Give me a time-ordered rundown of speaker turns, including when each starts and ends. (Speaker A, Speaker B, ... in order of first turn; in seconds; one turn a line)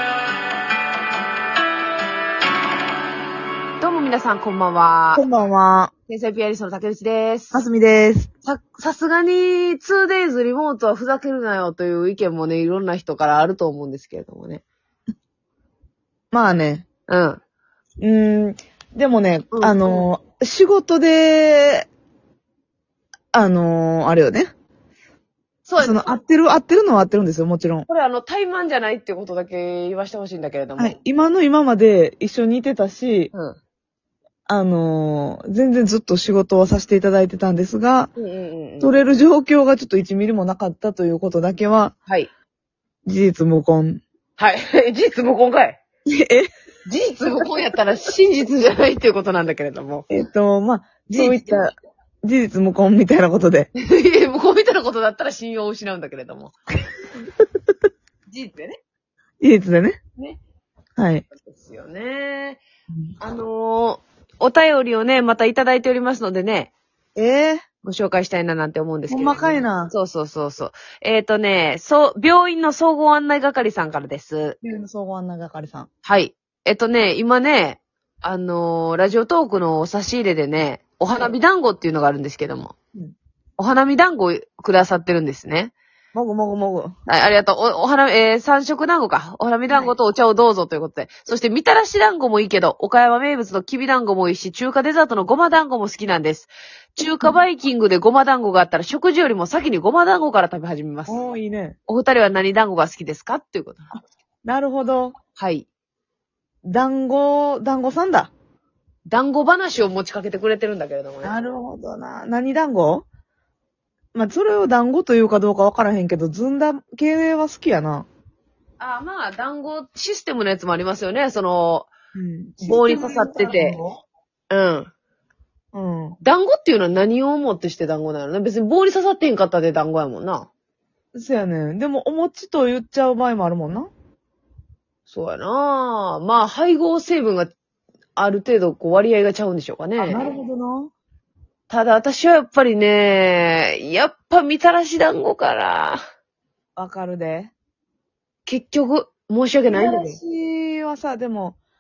Speaker A: 3.8-5.2
Speaker B: 5.2-5.9
Speaker A: 6.1-7.6
Speaker B: 7.5-8.3
Speaker A: 8.4-14.6
Speaker B: 16.3-16.9
Speaker A: 17.1-17.4
Speaker B: 18.0-21.9
Speaker A: 19.5-20.1
Speaker B: 23.3-24.5
Speaker A: 25.6-26.1
Speaker B: 25.8-27.9
Speaker A: 27.9-31.0
Speaker B: 30.8-33.3
Speaker A: 33.3-33.6
Speaker B: 34.5-38.1
Speaker A: 38.2-38.9
Speaker B: 38.8-41.9
Speaker B: 43.1-44.0
Speaker A: 44.4-45.8
Speaker B: 46.1-46.5
Speaker A: 46.9-50.1
Speaker B: 50.1-51.7
Speaker A: 51.1-51.6
Speaker B: 52.2-53.7
Speaker A: 53.8-56.5
Speaker A: 58.3-58.8
Speaker B: 59.4-60.0
Speaker B: 61.0-61.2
Speaker A: 61.4-62.6
Speaker A: 63.2-66.7
Speaker B: 67.2-67.6
Speaker A: 67.8-74.6
Speaker B: 69.1-69.9
Speaker B: 74.6-75.9
Speaker A: 76.0-82.7
Speaker A: 83.6-85.7
Speaker B: 86.1-86.9
Speaker A: 87.1-101.2
Speaker B: 101.1-101.8
Speaker A: 101.9-103.9
Speaker B: 103.9-105.2
Speaker A: 105.3-105.7
Speaker B: 106.7-108.3
Speaker A: 109.1-111.4
Speaker B: 111.2-113.1
Speaker B: 114.1-118.1
Speaker A: 118.8-121.9
Speaker B: 122.2-124.0
Speaker A: 122.6-123.8
Speaker A: 124.5-124.9
Speaker B: 125.7-126.2
Speaker A: 126.2-130.5
Speaker B: 131.2-133.9
Speaker A: 135.1-137.5
Speaker A: 138.2-140.2
Speaker B: 140.0-140.9
Speaker A: 141.7-146.0
Speaker B: 146.8-147.5
Speaker A: 148.5-150.2
Speaker B: 149.7-151.6